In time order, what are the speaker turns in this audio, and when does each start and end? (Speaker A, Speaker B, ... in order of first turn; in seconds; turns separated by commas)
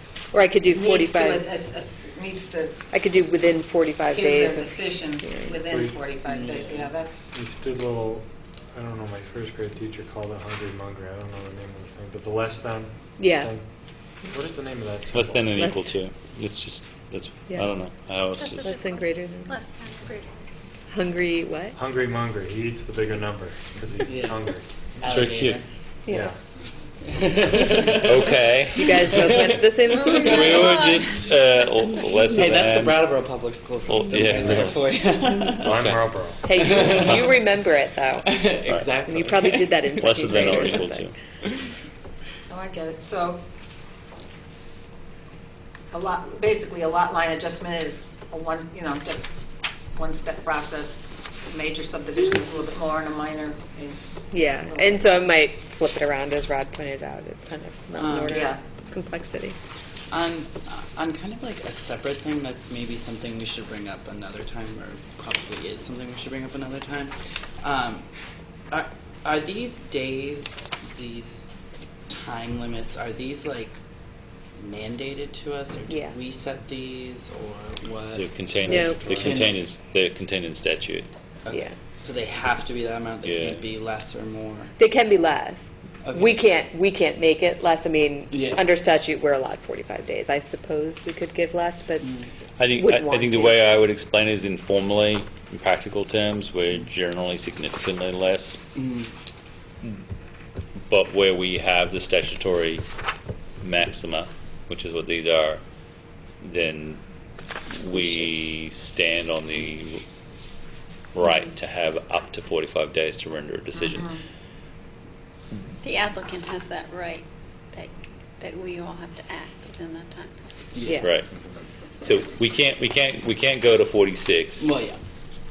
Speaker A: 0.3-1.5, Speaker B: 0.7-2.8, Speaker A: 2.9-5.7, Speaker B: 4.1-7.3, Speaker C: 5.7-6.0, Speaker D: 6.3-6.7, Speaker C: 7.3-13.6, Speaker A: 13.2-13.5, Speaker C: 14.2-15.5, Speaker E: 15.1-18.7, Speaker A: 15.6-15.9, Speaker F: 18.3-20.3, Speaker A: 18.6-19.6, Speaker A: 20.9-21.8, Speaker C: 21.8-24.6, Speaker D: 24.0-24.4, Speaker D: 25.0-25.6, Speaker E: 25.0-25.6, Speaker A: 26.1-26.3, Speaker C: 26.1-26.4, Speaker D: 27.1-28.4, Speaker E: 27.9-29.2, Speaker A: 28.7-30.5, Speaker E: 30.0-33.1, Speaker D: 30.1-30.8, Speaker F: 30.4-31.1, Speaker D: 32.2-35.8, Speaker E: 33.9-34.8, Speaker C: 34.3-34.9, Speaker A: 35.3-35.6, Speaker C: 35.5-37.1, Speaker E: 35.7-36.0, Speaker A: 36.4-41.1, Speaker D: 36.7-37.2, Speaker D: 38.2-40.8, Speaker E: 38.6-39.0, Speaker E: 40.0-41.1, Speaker B: 42.5-43.4, Speaker B: 45.9-49.4, Speaker B: 49.9-55.3, Speaker A: 54.3-59.6, Speaker D: 58.0-58.4, Speaker B: 58.3-58.6, Speaker D: 60.1-68.0, Speaker D: 68.7-71.5, Speaker D: 72.1-73.8, Speaker D: 74.6-79.6, Speaker A: 75.9-76.2, Speaker E: 78.2-81.1, Speaker A: 78.6-79.2, Speaker D: 81.4-84.7, Speaker A: 81.5-81.8, Speaker E: 83.2-83.6, Speaker A: 84.8-93.7, Speaker D: 86.1-86.4, Speaker D: 88.3-88.6, Speaker D: 92.0-92.3, Speaker E: 92.6-98.6, Speaker D: 98.7-99.1, Speaker E: 100.9-102.8, Speaker E: 103.6-105.6, Speaker E: 106.4-107.0, Speaker E: 107.7-110.0, Speaker E: 111.1-114.1, Speaker F: 115.8-120.3, Speaker D: 120.7-121.0, Speaker A: 120.8-121.1, Speaker E: 121.0-121.3, Speaker E: 122.0-124.7, Speaker D: 124.6-125.0